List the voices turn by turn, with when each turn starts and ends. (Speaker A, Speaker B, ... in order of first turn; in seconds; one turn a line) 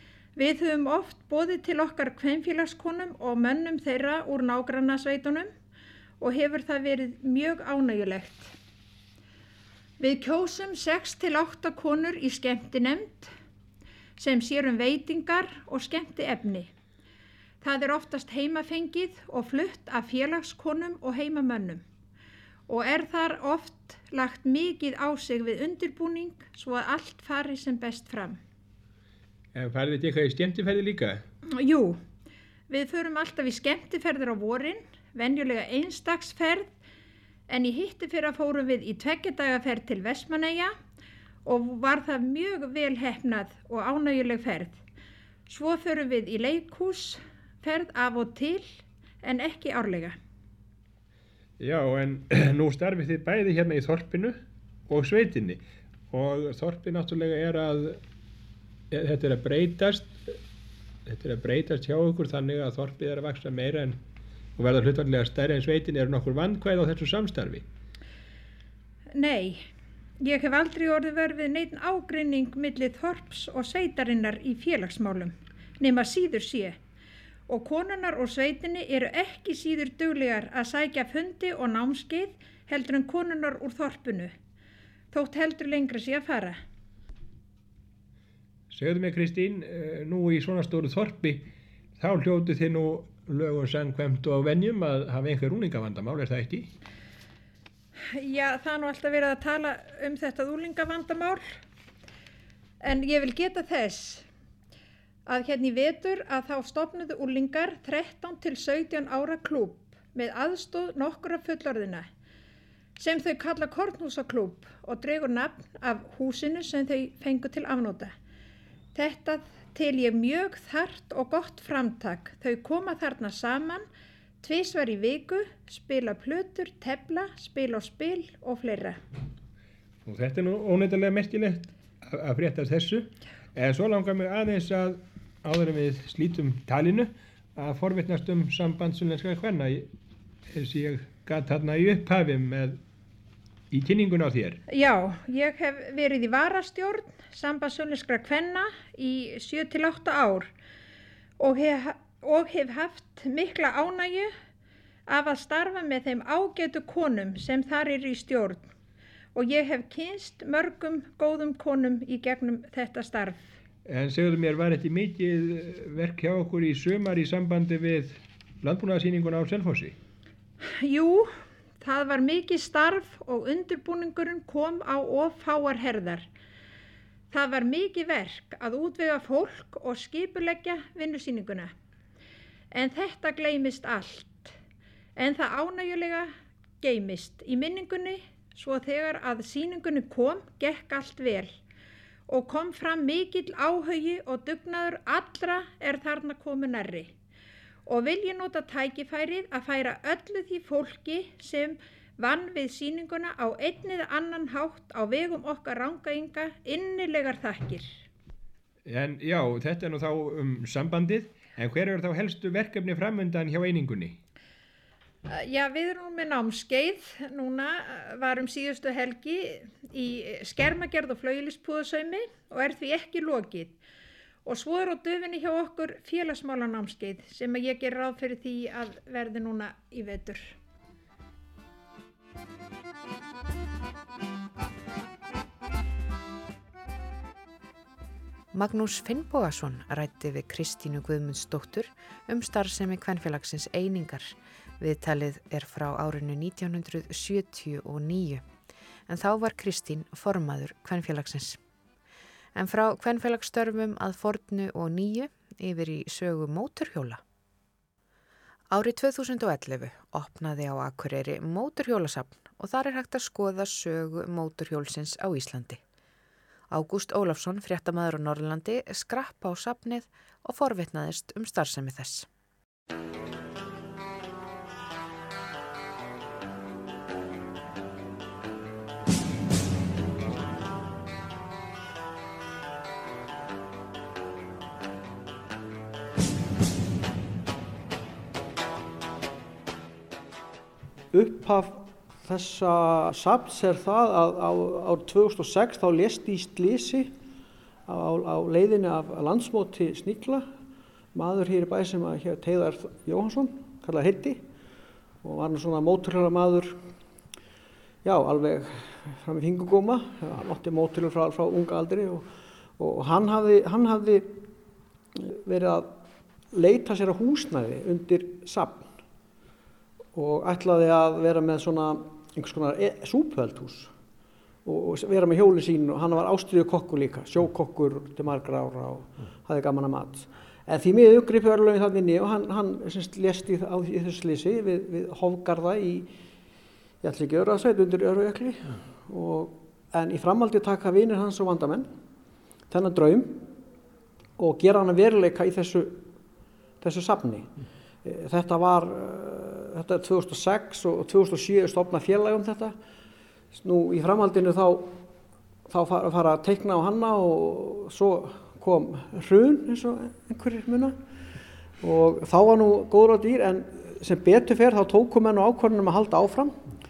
Speaker A: 0.4-5.5
Speaker A: 6.2-8.5
Speaker A: 10.0-13.3
Speaker A: 14.2-16.7
Speaker A: 17.6-21.9
Speaker A: 22.7-28.4
Speaker B: 29.5-31.2
Speaker A: 31.5-32.0
Speaker A: 32.7-36.7
Speaker A: 37.5-40.8
Speaker A: 41.5-44.8
Speaker A: 45.5-50.2
Speaker B: 51.6-58.0
Speaker B: 58.9-60.4
Speaker B: 61.1-64.0
Speaker B: 64.6-67.7
Speaker A: 69.1-69.7
Speaker A: 70.2-76.8
Speaker A: 77.5-84.3
Speaker A: 85.1-86.6
Speaker B: 88.7-96.7
Speaker A: 98.1-101.6
Speaker A: 102.8-104.3
Speaker A: 105.3-112.1
Speaker A: 113.0-118.1
Speaker A: 118.9-123.9
Speaker A: 124.4-129.0
Speaker B: 130.1-139.9
Speaker B: 140.5-142.8
Speaker B: 143.7-144.6
Speaker A: 144.7-150.5
Speaker A: 151.4-154.3
Speaker A: 155.1-158.7
Speaker A: 159.3-163.5
Speaker B: 163.9-170.0
Speaker A: 170.6-176.3
Speaker A: 177.3-181.7
Speaker A: 182.7-184.6
Speaker A: 185.2-191.6
Speaker A: 192.3-197.1
Speaker A: 197.9-208.0
Speaker B: 208.9-214.2
Speaker A: 215.3-223.8
Speaker A: 224.4-230.6
Speaker C: 238.5-248.4
Speaker C: 249.1-251.6
Speaker C: 252.6-257.2
Speaker C: 258.7-265.8
Speaker C: 266.7-272.3
Speaker D: 291.1-297.1
Speaker D: 297.9-300.5
Speaker D: 301.1-304.4
Speaker D: 305.2-306.9
Speaker D: 308.0-314.5
Speaker D: 315.1-316.0
Speaker D: 316.5-318.9
Speaker D: 320.1-323.9
Speaker D: 324.6-336.1
Speaker D: 337.0-341.9
Speaker D: 342.7-343.5
Speaker D: 344.4-346.0
Speaker D: 346.8-347.5
Speaker D: 348.0-352.8
Speaker D: 353.5-355.1
Speaker D: 355.7-361.0
Speaker D: 361.8-366.7